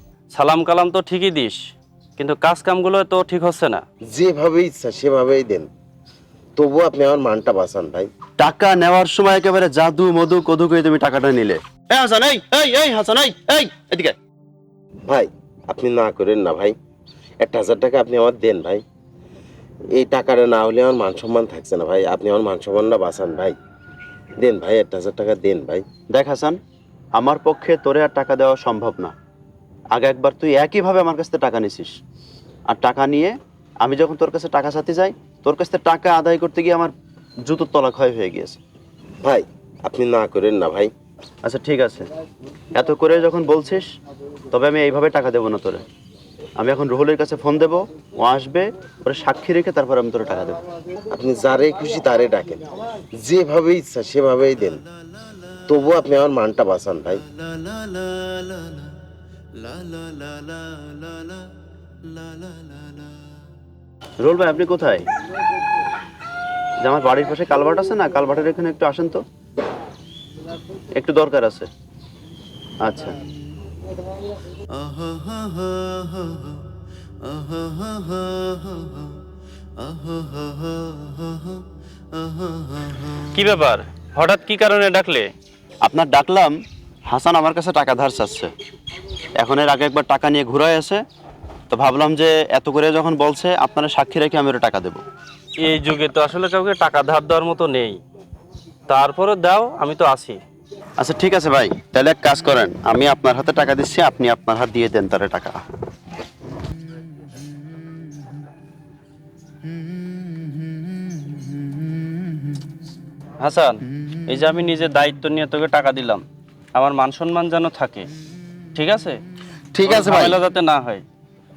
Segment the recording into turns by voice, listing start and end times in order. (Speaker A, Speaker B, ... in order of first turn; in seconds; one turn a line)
Speaker A: 0.3-1.6
Speaker A: 2.2-3.8
Speaker B: 4.1-5.7
Speaker B: 6.6-8.1
Speaker C: 8.4-14.2
Speaker B: 15.1-16.7
Speaker B: 17.4-18.8
Speaker B: 19.9-23.6
Speaker B: 24.4-25.8
Speaker C: 26.1-26.6
Speaker C: 27.1-29.1
Speaker C: 29.9-32.0
Speaker C: 32.7-36.9
Speaker C: 37.4-38.6
Speaker B: 39.2-40.9
Speaker C: 41.4-42.0
Speaker C: 42.7-43.9
Speaker C: 44.5-45.8
Speaker C: 46.6-50.6
Speaker B: 51.1-54.8
Speaker B: 55.7-57.2
Speaker C: 57.6-58.4
Speaker C: 59.7-60.8
Speaker C: 64.2-65.1
Speaker C: 66.8-69.2
Speaker C: 70.9-71.7
Speaker C: 72.8-73.2
Speaker C: 74.8-76.5
Speaker C: 77.3-78.9
Speaker C: 79.8-81.1
Speaker A: 83.1-85.3
Speaker C: 85.8-88.5
Speaker C: 89.4-91.0
Speaker C: 91.7-95.0
Speaker A: 95.6-98.0
Speaker A: 98.9-100.4
Speaker C: 101.0-105.6
Speaker A: 113.4-116.2
Speaker A: 116.7-118.1
Speaker A: 118.7-119.2
Speaker B: 119.7-120.4
Speaker A: 119.8-121.0